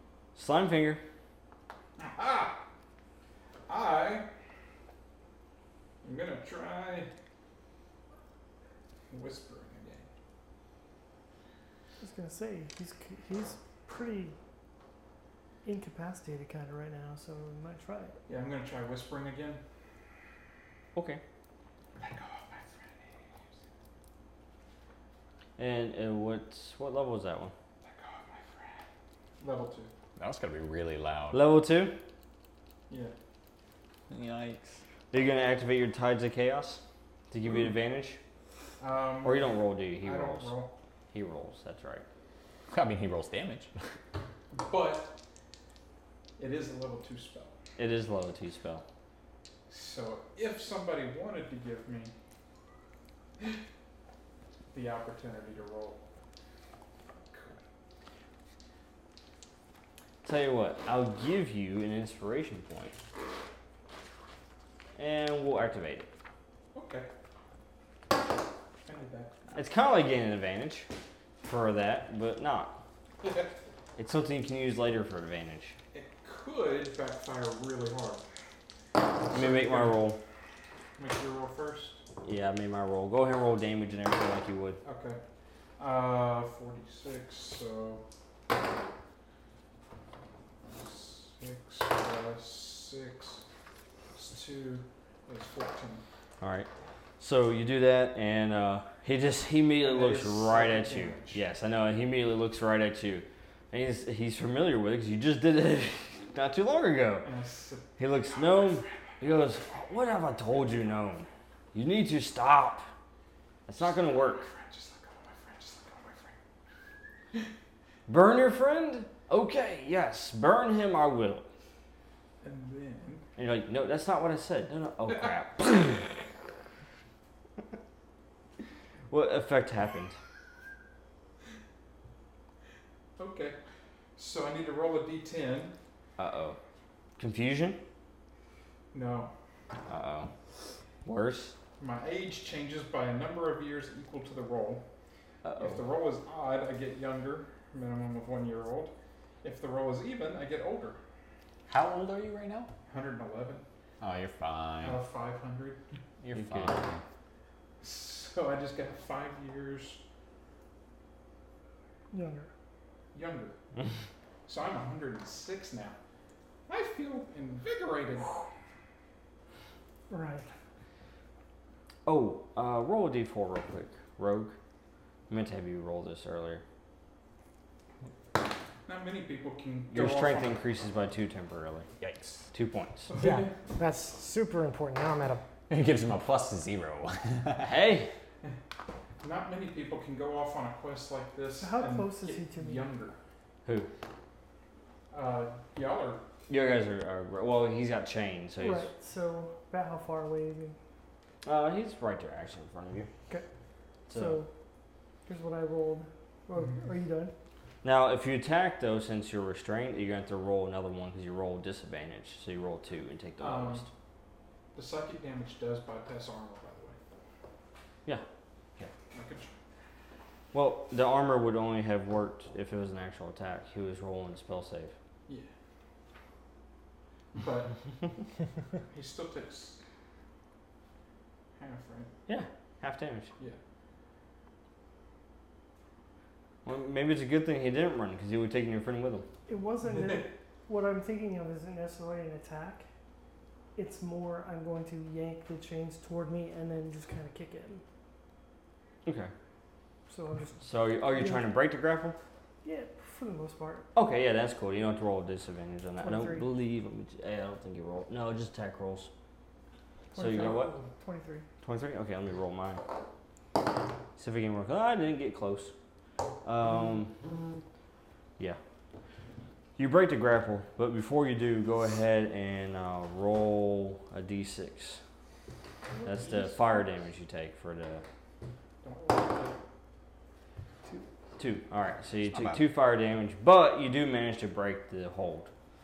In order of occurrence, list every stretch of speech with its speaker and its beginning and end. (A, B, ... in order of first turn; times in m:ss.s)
0:00.3-0:01.0 A
0:02.0-0:02.6 B
0:03.7-0:04.2 B
0:06.0-0:07.1 B
0:09.1-0:10.0 B
0:12.0-0:14.4 C
0:15.6-0:18.2 C
0:18.3-0:19.6 B
0:20.9-0:21.2 A
0:22.0-0:23.2 B
0:25.6-0:27.5 A
0:27.8-0:28.8 B
0:29.4-0:29.9 B
0:30.2-0:31.4 D
0:31.3-0:32.0 A
0:32.9-0:33.1 B
0:34.1-0:34.8 D
0:35.1-0:38.2 A
0:38.8-0:40.7 B
0:39.2-0:40.6 A
0:41.1-0:42.0 A
0:42.7-0:43.7 D
0:44.5-0:45.1 B
0:46.4-0:47.5 B
0:47.8-0:48.8 A
0:49.7-0:52.1 B
0:54.7-0:56.0 B
0:57.2-0:57.6 B
1:00.2-1:02.9 A
1:05.0-1:06.1 A
1:06.7-1:07.1 B
1:08.8-1:09.4 B
1:09.5-1:10.9 A
1:11.4-1:12.8 A
1:13.2-1:13.5 B
1:14.0-1:15.8 A
1:15.9-1:18.2 B
1:19.2-1:20.0 B
1:19.3-1:20.2 A
1:21.0-1:22.0 B
1:22.2-1:24.8 A
1:24.8-1:25.2 B
1:25.8-1:28.0 B
1:30.7-1:33.4 B
1:34.1-1:36.0 B
1:36.4-1:36.7 A
1:37.2-1:47.3 A
1:39.8-1:41.4 B
1:47.2-1:48.9 B
1:48.0-1:52.8 A
1:53.7-1:54.5 A
1:53.8-1:56.4 B
1:58.1-2:01.4 A
2:02.4-2:03.2 B
2:03.4-2:06.0 A
2:09.1-2:10.2 A
2:13.2-2:13.6 B
2:14.2-2:15.7 B
2:16.2-2:16.6 A
2:17.2-2:17.8 A
2:18.9-2:19.3 B
2:19.9-2:20.3 A
2:21.0-2:21.5 A
2:21.8-2:24.8 B
2:25.4-2:25.8 A
2:25.6-2:28.9 B
2:29.4-2:31.0 B
2:31.7-2:32.7 D
2:32.9-2:33.6 B
2:34.0-2:35.0 D
2:34.8-2:35.8 B
2:36.2-2:37.0 D
2:36.3-2:36.8 A
2:37.8-2:40.0 B
2:42.1-2:42.5 C
2:43.1-2:43.6 B
2:44.5-2:46.0 B
2:46.7-2:48.4 B
2:50.1-2:50.5 C
2:52.0-2:54.6 A
2:55.3-2:56.6 A
2:58.8-3:00.6 B
2:59.9-3:01.9 A
3:02.0-3:02.4 D
3:02.5-3:03.1 A
3:03.1-3:03.5 B
3:03.2-3:05.4 E
3:05.7-3:07.7 D
3:07.6-3:08.1 A
3:09.2-3:13.2 B
3:11.6-3:12.9 C
3:15.1-3:16.2 B
3:16.5-3:18.9 A
3:18.6-3:20.8 C
3:21.4-3:23.1 A
3:24.1-3:24.4 A
3:24.1-3:24.5 C
3:25.2-3:27.3 C
3:27.8-3:33.9 A
3:33.4-3:33.9 B
3:34.7-3:37.0 B
3:39.1-3:39.5 B
3:40.5-3:44.9 A
3:47.3-3:47.7 B
3:48.9-3:49.8 B
3:51.6-3:52.1 B
3:52.3-3:53.3 A
3:56.6-3:59.2 A
3:59.5-4:02.8 C
3:59.8-4:00.3 B
4:03.8-4:07.8 C
4:09.0-4:09.3 A
4:10.1-4:10.6 C
4:10.6-4:12.2 A
4:11.1-4:11.5 C
4:12.6-4:13.9 C
4:13.9-4:19.1 A
4:16.0-4:16.5 C
4:20.1-4:21.4 C
4:20.2-4:20.7 A
4:21.6-4:22.8 A
4:24.2-4:25.7 A
4:26.4-4:27.1 A
4:29.8-4:35.0 A
4:36.0-4:38.0 A
4:36.2-4:36.6 B
4:38.8-4:39.6 B
4:41.4-4:45.5 A
4:42.2-4:42.6 D